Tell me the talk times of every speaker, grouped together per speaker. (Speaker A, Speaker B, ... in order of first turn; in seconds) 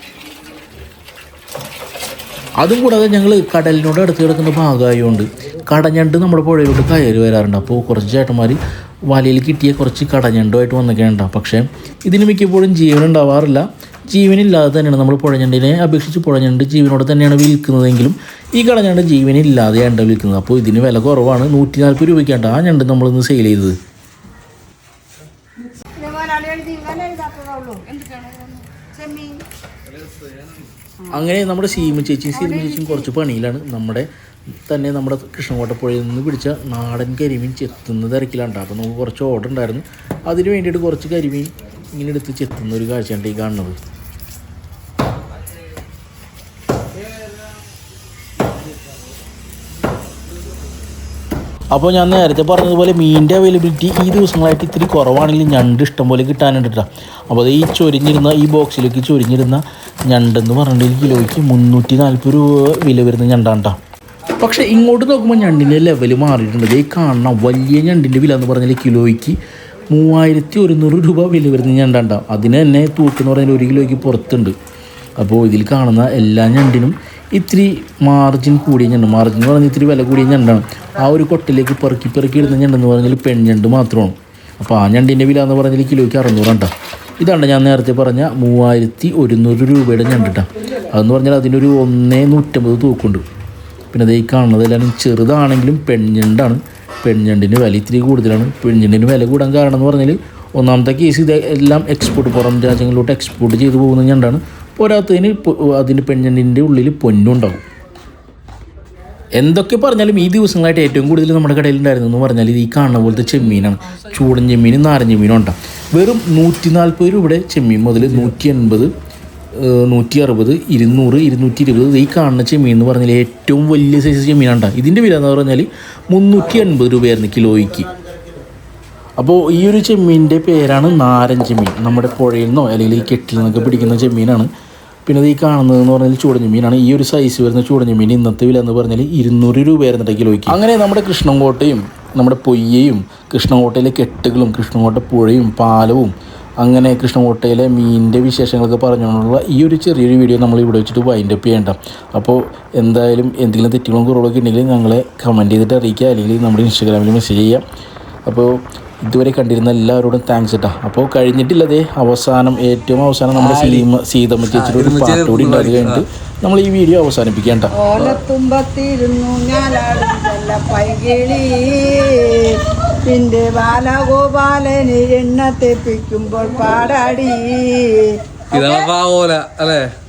Speaker A: 2.6-23.8, 31.1-34.1, 34.6-43.8, 51.7-63.8, 64.4-69.4, 69.9-74.5, 75.2-93.2, 93.9-107.6, 109.3-118.9, 119.5-127.9, 129.2-134.5, 135.1-157.6, 158.2-167.7
Speaker B: 25.8-29.4, 32.3-33.1, 167.7-178.8
Speaker C: 163.3-163.8, 164.5-166.0, 178.5-179.9